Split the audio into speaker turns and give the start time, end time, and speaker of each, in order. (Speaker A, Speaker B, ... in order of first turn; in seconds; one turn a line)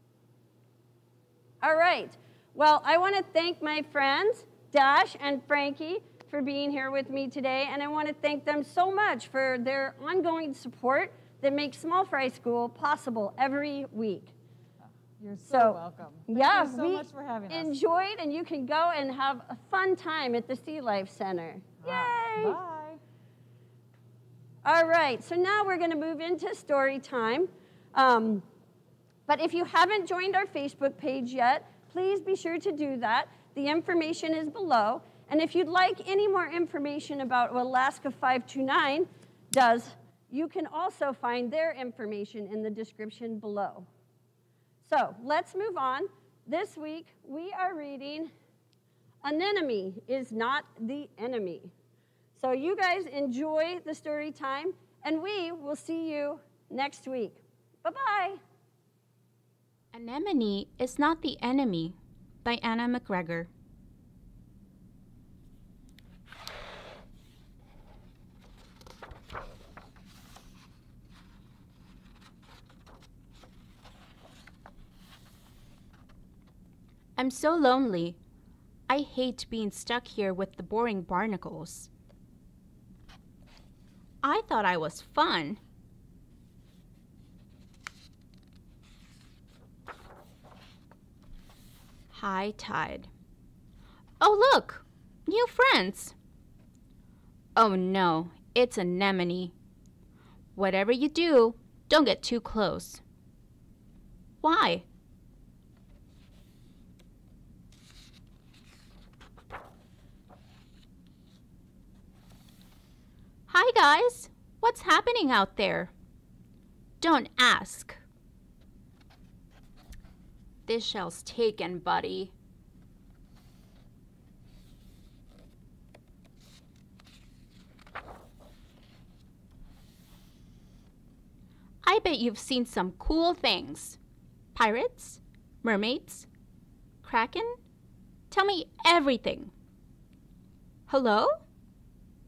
Speaker A: 1.6-14.3
Speaker B: 15.1-17.7
Speaker A: 15.5-22.6
Speaker B: 21.8-23.0
Speaker A: 24.6-28.4
Speaker A: 29.3-43.9
Speaker A: 44.8-48.3
Speaker A: 49.2-51.7
Speaker A: 52.3-58.4
Speaker C: 59.9-63.5
Speaker C: 77.2-78.2
Speaker C: 78.9-81.9
Speaker C: 84.2-85.6
Speaker C: 92.1-93.1
Speaker C: 94.2-96.1
Speaker C: 97.5-99.5
Speaker C: 100.5-103.0
Speaker C: 104.4-104.8
Speaker C: 113.5-115.9
Speaker C: 117.0-118.0
Speaker C: 120.7-122.3
Speaker C: 131.8-134.0
Speaker C: 134.5-136.3
Speaker C: 137.0-137.6
Speaker C: 138.3-139.5
Speaker C: 140.9-141.4